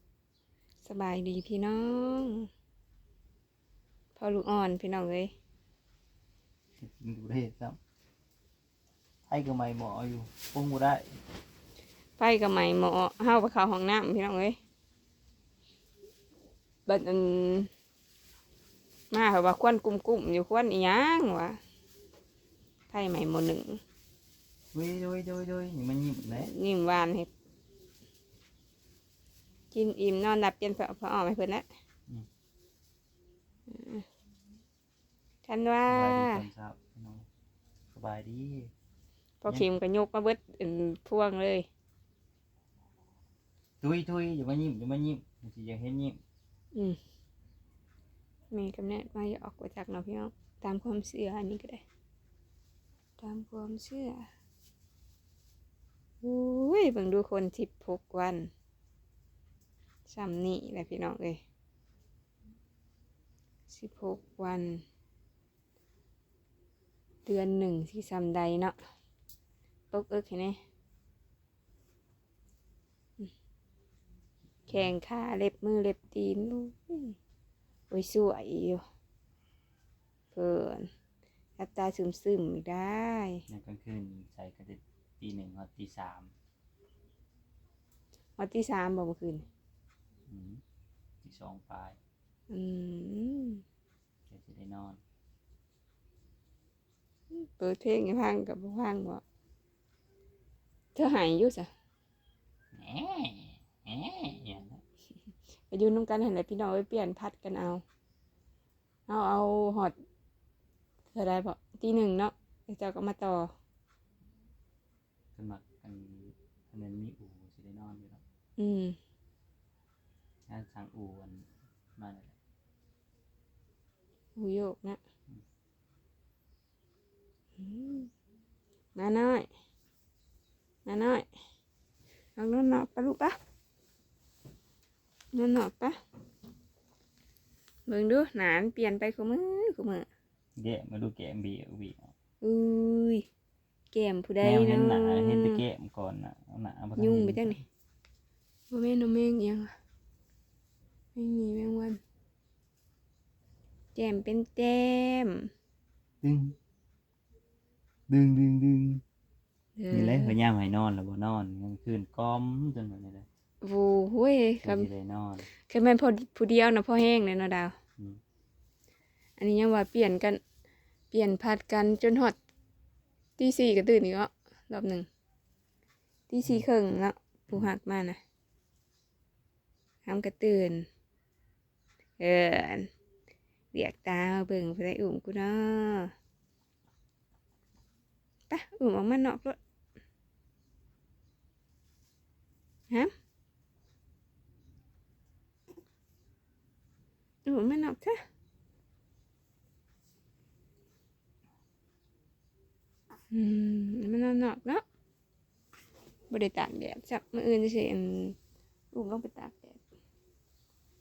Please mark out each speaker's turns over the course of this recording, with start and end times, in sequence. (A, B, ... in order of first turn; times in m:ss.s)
0:00.8-0:02.5 A
0:04.2-0:05.3 A
0:06.8-0:07.8 B
0:09.3-0:11.1 B
0:12.2-0:14.6 A
0:16.9-0:17.7 A
0:19.1-0:21.6 A
0:22.9-0:23.8 A
0:24.7-0:26.5 B
0:26.4-0:27.3 A
0:29.7-0:31.7 A
0:33.7-0:34.0 A
0:35.5-0:36.4 A
0:35.9-0:37.3 B
0:37.9-0:38.7 B
0:39.4-0:41.7 A
0:43.8-0:46.2 B
0:48.5-0:51.8 A
0:53.2-0:54.3 A
0:56.2-0:58.5 A
1:00.1-1:01.4 A
1:03.7-1:04.8 A
1:07.3-1:08.8 A
1:09.9-1:10.6 A
1:14.7-1:17.2 A
1:17.9-1:18.8 A
1:20.3-1:20.9 A
1:21.6-1:23.4 A
1:23.5-1:26.3 B
1:28.4-1:29.4 A
1:30.3-1:30.6 B
1:31.2-1:32.0 B
1:32.5-1:33.6 A
1:34.3-1:35.0 B
1:37.3-1:39.2 A
1:41.0-1:41.7 A
1:42.7-1:44.8 B
1:45.7-1:47.8 A
1:49.1-1:49.9 A
1:51.1-1:53.5 A
1:55.4-1:58.2 B
1:58.6-1:59.0 A
2:00.5-2:02.4 B
2:04.4-2:05.0 A
2:07.6-2:08.1 A
2:09.0-2:09.5 A
2:10.9-2:11.3 A
2:12.4-2:13.4 A
2:15.3-2:16.0 A
2:17.9-2:20.1 A
2:20.6-2:22.1 B
2:22.4-2:23.2 A
2:23.9-2:25.6 A
2:24.4-2:27.6 B
2:27.0-2:27.6 A
2:28.7-2:29.7 A
2:31.2-2:32.0 A
2:34.0-2:35.5 A
2:36.2-2:36.6 B
2:38.1-2:39.0 B
2:39.8-2:40.4 A
2:39.9-2:43.3 B
2:43.6-2:44.9 A
2:44.6-2:45.5 B
2:45.7-2:47.7 A
2:49.4-2:50.4 A
2:51.1-2:52.4 A
2:53.4-2:55.1 A
2:56.3-2:58.2 A
3:00.1-3:00.9 A
3:02.2-3:02.9 A
3:03.7-3:06.1 A
3:08.5-3:09.6 A
3:17.4-3:18.2 A
3:23.3-3:24.8 A
3:26.3-3:28.4 A
3:28.9-3:29.8 A